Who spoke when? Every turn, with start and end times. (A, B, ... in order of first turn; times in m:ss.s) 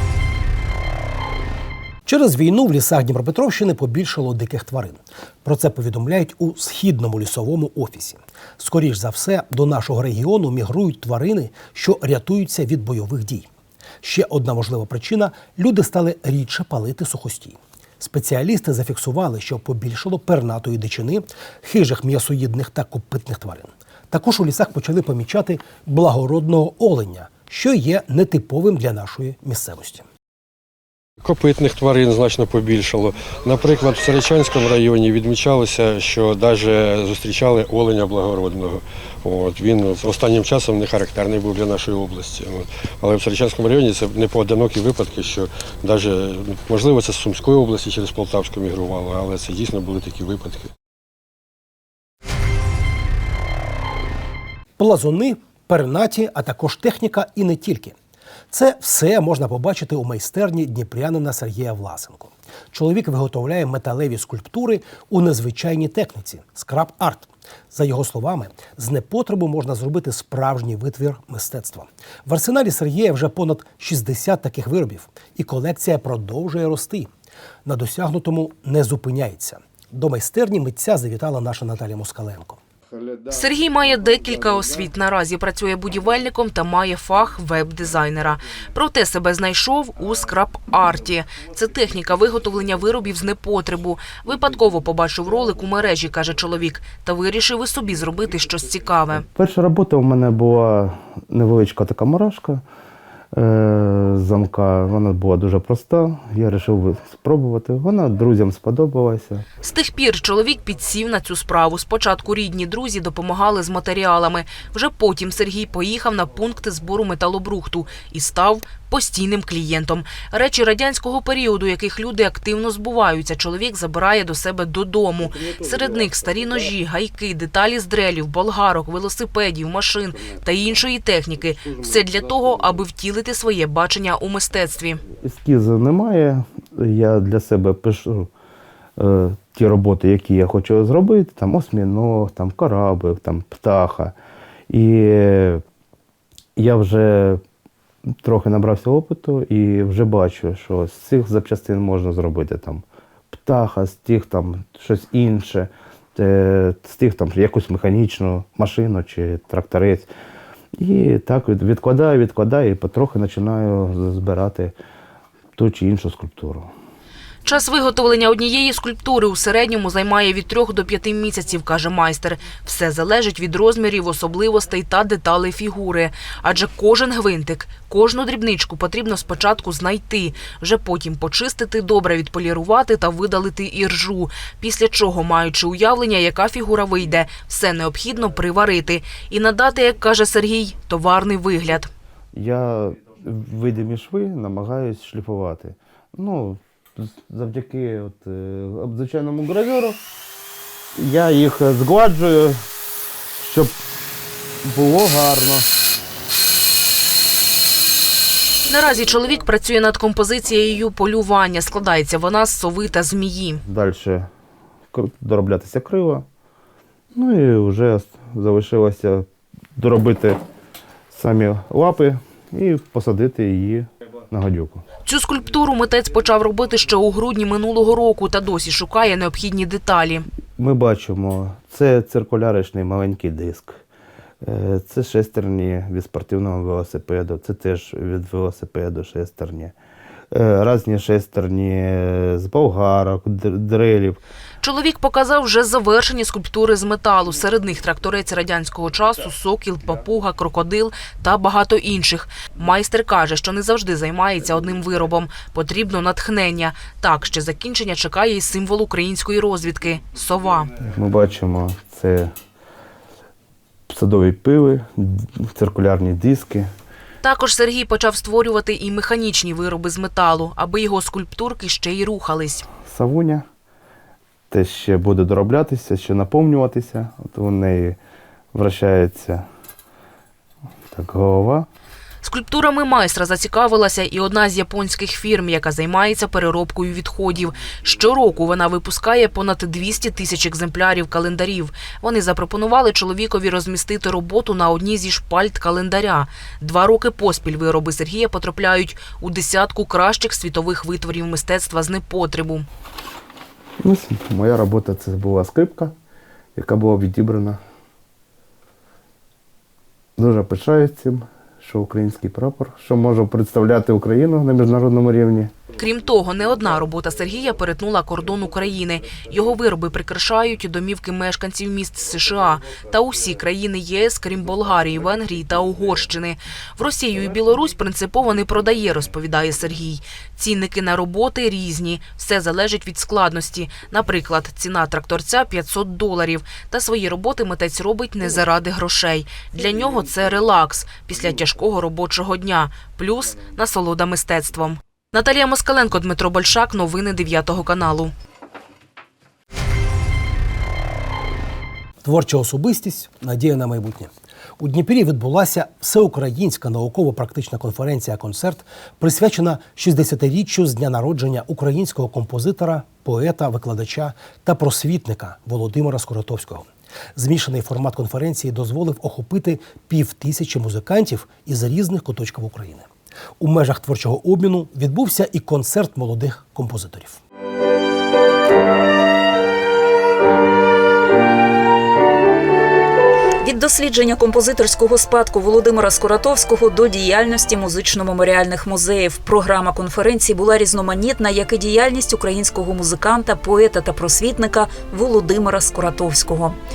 0:02.0-0:13.5 A
0:14.0-0:30.0 A
0:31.2-0:50.7 B
0:54.8-0:57.9 A
0:58.5-1:17.1 A
1:17.6-1:22.6 A
1:23.3-1:39.2 C
1:39.3-1:42.6 D
1:43.3-1:49.4 D
1:49.6-2:15.0 C
2:15.2-2:18.3 D
2:19.0-2:24.1 D
2:24.7-2:25.6 D
2:26.6-2:27.4 D
2:28.2-2:40.1 D
2:40.8-2:44.7 D
2:45.6-2:46.7 D
2:47.4-3:11.9 C
3:12.3-3:20.0 D
3:20.9-3:22.6 D
3:23.4-3:23.7 D
3:24.6-3:25.7 D
3:28.7-3:33.6 C
3:33.6-3:34.3 D
3:34.9-3:36.2 D
3:37.1-3:40.4 D
3:41.1-3:44.8 D
3:45.0-3:50.3 C
3:50.6-3:53.8 D
3:54.4-3:59.7 D
4:00.3-4:04.2 D
4:04.6-4:20.7 C
4:20.9-4:22.3 D
4:23.9-4:26.7 D
4:27.2-4:32.7 C
4:32.8-4:33.4 D
4:34.5-4:38.0 D
4:38.5-4:39.4 D
4:40.9-4:41.7 D
4:42.2-5:02.6 C
5:03.8-5:05.9 D
5:06.6-5:07.6 D
5:10.2-5:15.5 D
5:15.8-5:48.1 C
5:52.0-6:12.9 A
6:13.4-6:17.2 A
6:23.4-6:36.6 E